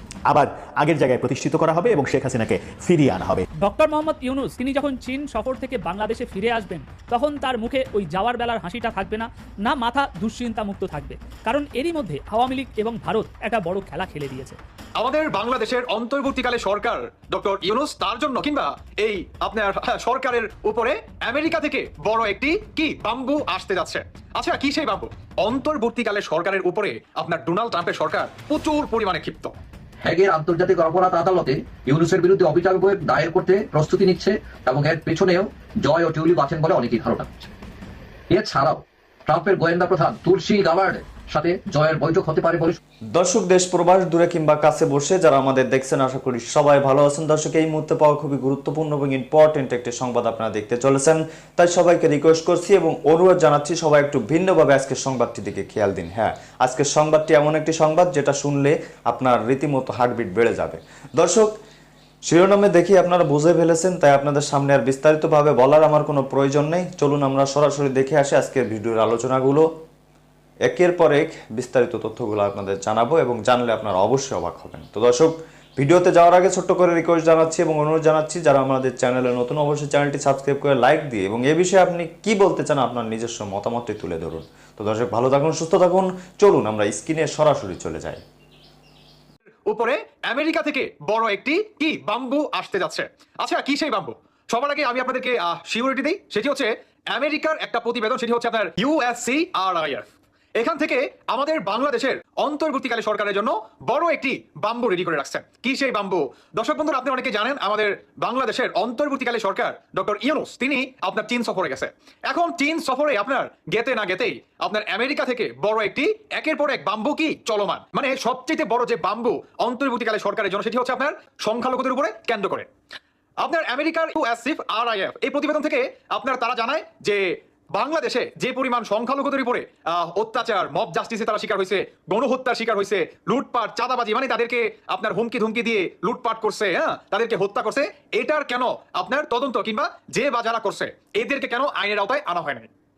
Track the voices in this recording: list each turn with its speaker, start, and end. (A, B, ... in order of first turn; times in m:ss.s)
0:00.3-0:03.4 A
0:03.6-0:14.6 B
0:15.0-0:29.6 C
0:30.0-0:37.5 D
0:38.3-0:42.8 D
0:43.1-1:01.5 E
1:02.2-1:09.7 E
1:10.6-1:28.2 E
1:29.7-2:02.7 C
2:03.4-2:22.7 C